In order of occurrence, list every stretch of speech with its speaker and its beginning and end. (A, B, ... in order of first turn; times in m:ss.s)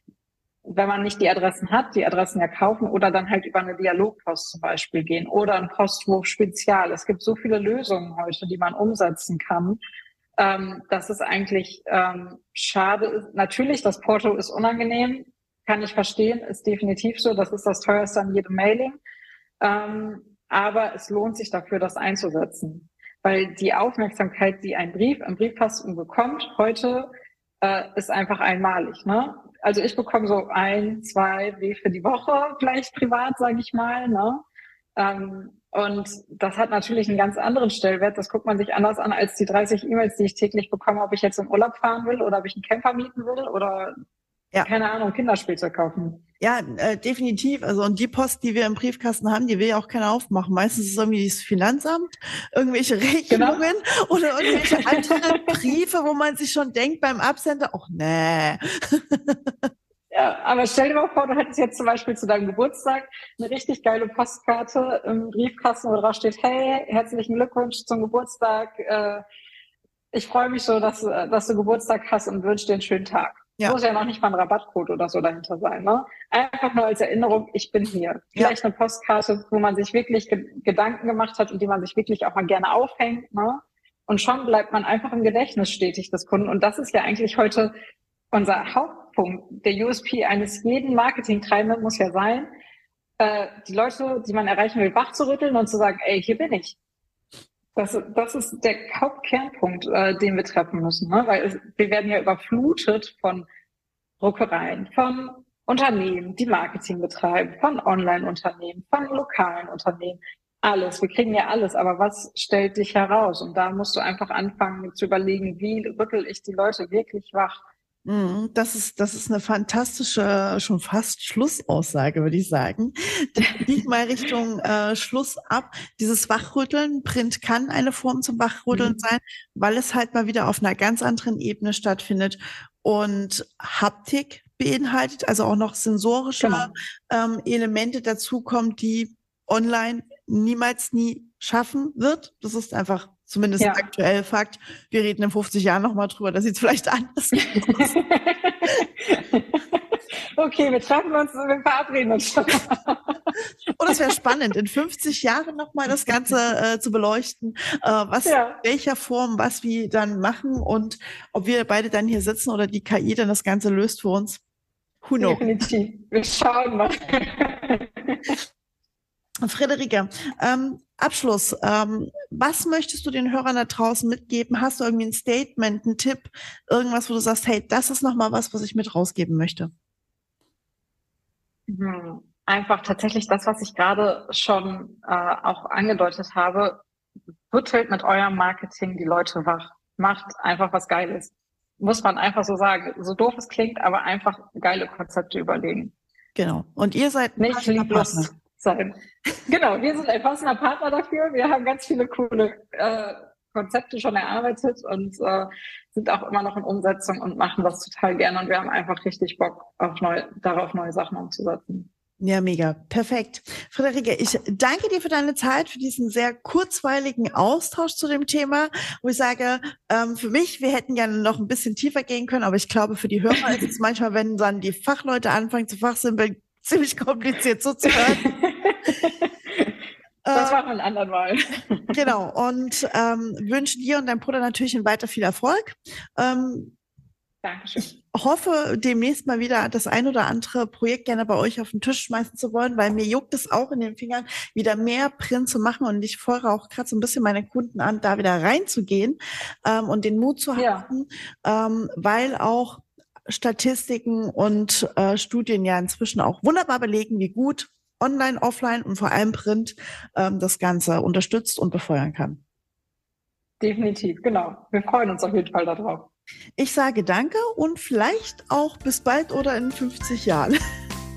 0:00.7-0:09.8 A
0:10.4-0:19.0 A
0:19.6-0:27.1 A
0:27.6-0:34.4 A
0:35.0-0:44.0 A
0:44.6-0:46.2 A
0:46.4-0:59.7 B
0:53.3-0:53.6 A
0:54.4-0:55.6 A
1:00.1-1:09.2 A
1:10.1-1:27.7 A
1:28.3-1:32.5 A
1:33.2-1:36.8 A
1:37.8-1:43.5 A
1:44.2-1:57.6 A
1:58.1-2:28.0 B
2:08.7-2:09.0 A
2:16.4-2:16.7 A
2:23.6-2:23.8 A
2:27.4-2:33.3 A
2:33.8-2:44.4 B
2:38.2-2:38.6 A
2:45.0-2:45.5 B
2:45.2-2:48.4 A
2:49.4-2:59.7 B
3:01.7-3:06.8 A
3:07.5-3:15.9 A
3:16.4-3:18.3 B
3:17.4-3:19.0 A
3:19.5-3:31.9 A
3:32.2-3:48.3 B
3:47.9-3:49.8 A
3:50.2-3:50.6 B
3:50.3-3:52.0 A
3:51.9-3:56.7 B
3:57.4-3:58.0 A
3:58.0-4:22.4 B
4:10.6-4:10.9 A
4:23.6-4:26.1 A
4:26.6-4:30.6 B